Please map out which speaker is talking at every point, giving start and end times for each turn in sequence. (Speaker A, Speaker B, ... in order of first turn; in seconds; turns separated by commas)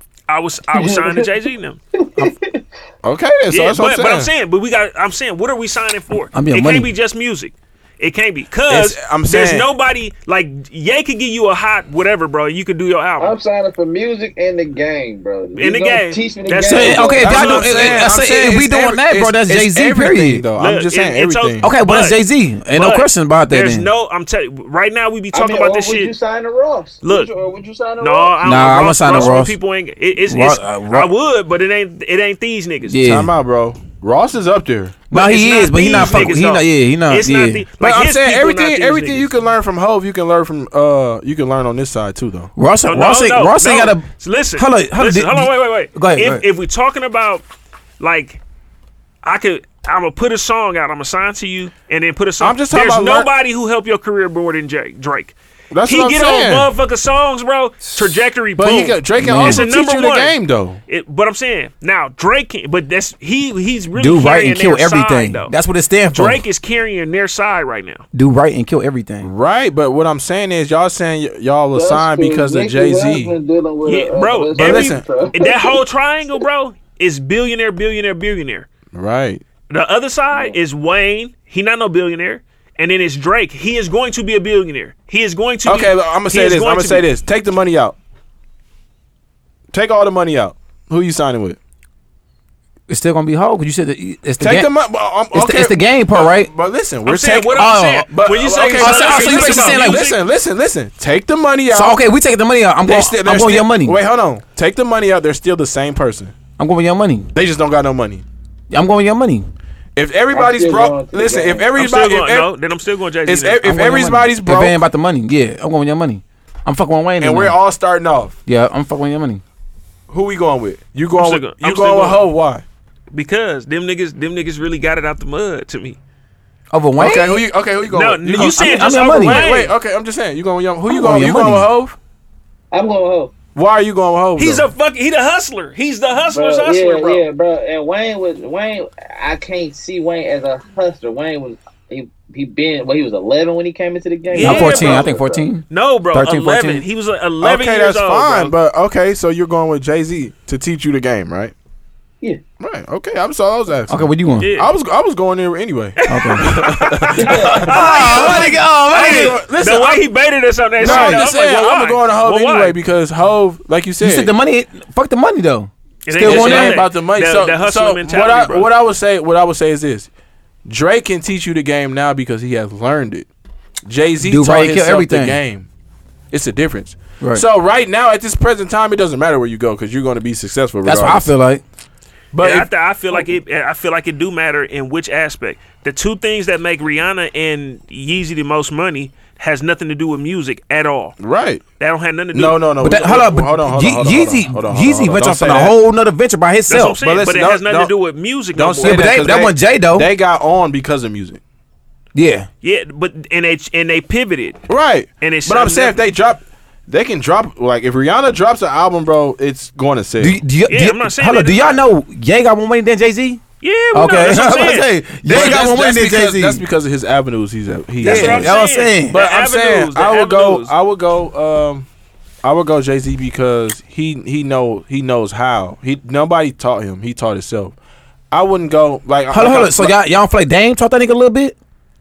Speaker A: 0.3-1.8, Speaker B: 0.7-1.3, Speaker B: 2.0-2.6, Speaker C: 3.0-4.3, Speaker A: 3.5-13.4, Speaker D: 6.3-6.9, Speaker C: 8.7-9.7, Speaker B: 13.2-17.3, Speaker A: 15.6-18.1, Speaker D: 16.6-20.5, Speaker C: 17.2-21.7, Speaker A: 20.6-22.2, Speaker D: 21.6-23.9, Speaker A: 22.7-26.1, Speaker B: 25.3-28.4, Speaker A: 27.0-27.3, Speaker A: 28.0-33.0, Speaker D: 28.4-29.6, Speaker D: 30.3-31.1, Speaker D: 32.9-33.3, Speaker C: 33.0-35.0, Speaker D: 35.1-37.7, Speaker A: 35.1-39.3, Speaker C: 37.8-42.5, Speaker D: 42.6-46.5, Speaker A: 42.9-47.5, Speaker A: 48.0-48.4, Speaker A: 49.2-60.4, Speaker C: 52.4-53.3, Speaker C: 55.7-56.7, Speaker C: 58.6-60.8, Speaker D: 59.2-59.7, Speaker A: 60.9-65.5, Speaker D: 64.0-66.4, Speaker A: 66.1-68.0, Speaker D: 68.1-69.3, Speaker C: 69.2-73.3, Speaker B: 71.7-75.8, Speaker A: 73.8-78.7, Speaker C: 74.6-75.0, Speaker C: 78.9-79.4, Speaker A: 79.7-87.1, Speaker C: 85.7-88.0, Speaker C: 89.7-91.6, Speaker D: 92.9-94.7, Speaker C: 94.4-102.0, Speaker D: 95.3-96.5, Speaker A: 97.0-100.2, Speaker D: 97.5-98.1, Speaker D: 98.7-100.1, Speaker D: 101.7-104.0, Speaker C: 102.8-106.3, Speaker D: 106.6-107.3, Speaker C: 107.3-108.2, Speaker D: 108.7-109.5, Speaker C: 110.0-112.5, Speaker B: 110.3-111.7, Speaker A: 111.8-113.7, Speaker C: 113.3-114.8, Speaker D: 113.6-117.6, Speaker C: 117.2-118.4, Speaker D: 118.5-119.4, Speaker C: 120.1-122.6, Speaker A: 121.2-122.2, Speaker A: 123.1-126.0, Speaker D: 126.7-127.4, Speaker C: 127.0-132.0, Speaker A: 127.9-129.8, Speaker D: 128.4-129.4, Speaker D: 130.9-131.7, Speaker B: 132.7-133.3, Speaker C: 133.6-134.7, Speaker A: 134.4-137.2, Speaker B: 136.3-145.5, Speaker A: 144.3-145.1, Speaker D: 144.4-146.8, Speaker A: 145.7-148.6, Speaker C: 147.4-151.6, Speaker C: 152.6-160.0, Speaker D: 153.9-154.5, Speaker A: 154.4-154.7, Speaker A: 156.0-162.8, Speaker D: 156.1-156.7, Speaker B: 157.2-157.7, Speaker D: 157.3-159.4, Speaker C: 160.8-164.3, Speaker D: 160.8-161.2, Speaker D: 164.0-166.8, Speaker A: 166.1-168.7, Speaker C: 166.2-170.1, Speaker C: 170.7-173.3, Speaker C: 173.8-175.7, Speaker D: 174.2-175.4, Speaker C: 176.3-181.3, Speaker D: 180.8-181.6, Speaker C: 182.3-183.2, Speaker A: 182.4-191.2, Speaker C: 191.2-191.6, Speaker A: 191.8-192.6, Speaker C: 192.3-195.8, Speaker D: 192.8-197.0, Speaker A: 196.7-199.4, Speaker C: 197.0-197.9, Speaker C: 198.6-201.4, Speaker D: 198.8-200.1, Speaker D: 202.2-202.5, Speaker A: 202.6-204.7, Speaker C: 204.7-210.4, Speaker A: 205.2-206.0, Speaker D: 210.2-213.4, Speaker A: 210.7-211.8, Speaker A: 213.6-215.6, Speaker D: 213.9-216.6, Speaker C: 215.2-221.9, Speaker D: 218.0-219.2, Speaker A: 218.0-220.7, Speaker C: 222.4-227.8, Speaker C: 228.3-229.9, Speaker D: 229.3-231.6